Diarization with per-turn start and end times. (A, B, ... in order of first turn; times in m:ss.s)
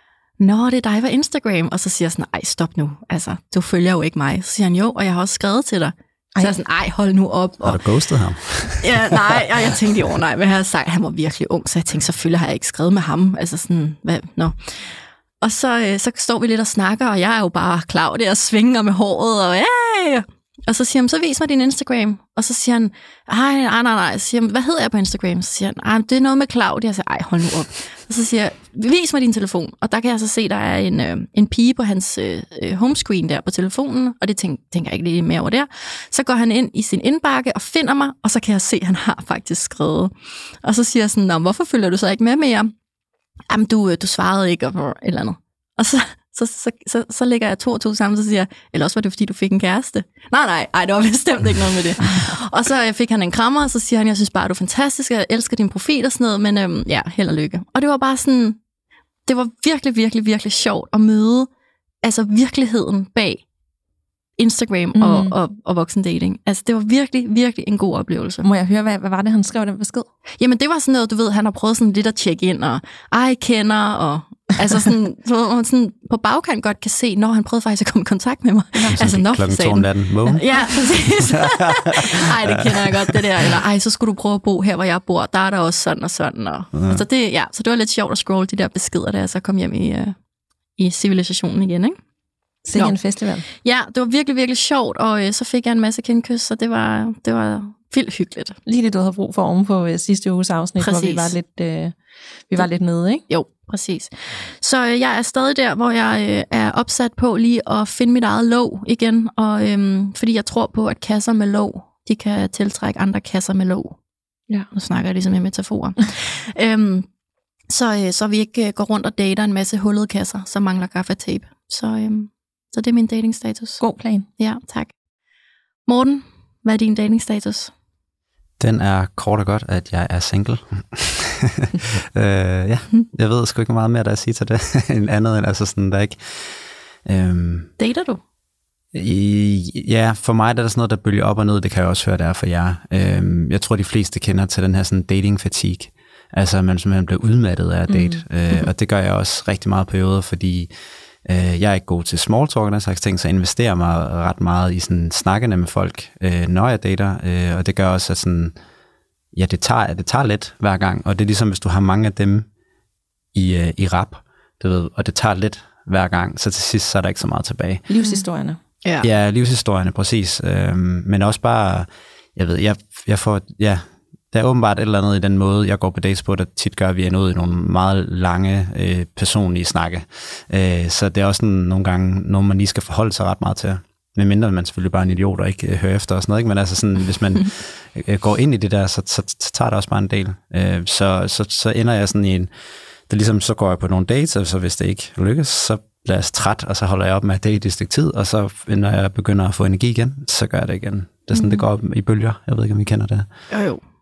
0:00.4-0:07.8 A
0:07.6-0:09.5 B
0:08.7-0:42.7 A
0:43.5-0:58.6 A
0:59.2-1:01.5 A
1:02.0-1:03.4 A
1:04.4-1:08.5 A
1:04.9-1:05.3 C
1:08.4-1:10.1 C
1:10.4-1:30.1 A
1:18.7-1:19.0 C
1:18.9-1:20.5 B
1:21.0-1:23.2 B
1:26.7-1:27.0 B
1:30.8-1:32.0 A
1:32.6-1:33.4 C
1:33.5-1:38.6 A
1:38.6-1:42.0 C
1:40.8-1:41.3 A
1:42.5-1:43.2 C
1:43.3-1:54.0 A
1:54.7-1:57.1 A
1:57.7-2:03.8 A
2:03.8-2:04.3 C
2:04.4-2:04.9 A
2:05.9-2:07.7 A
2:08.6-2:16.5 B
2:17.0-2:17.7 B
2:17.8-2:18.2 A
2:18.9-2:30.7 B
2:27.9-2:28.2 C
2:31.2-2:38.5 B
2:39.3-2:42.5 B
2:43.3-2:47.8 B
2:47.9-2:48.6 C
2:49.0-3:12.5 B
3:13.1-3:23.2 B
3:21.3-3:21.6 A
3:23.5-3:23.8 A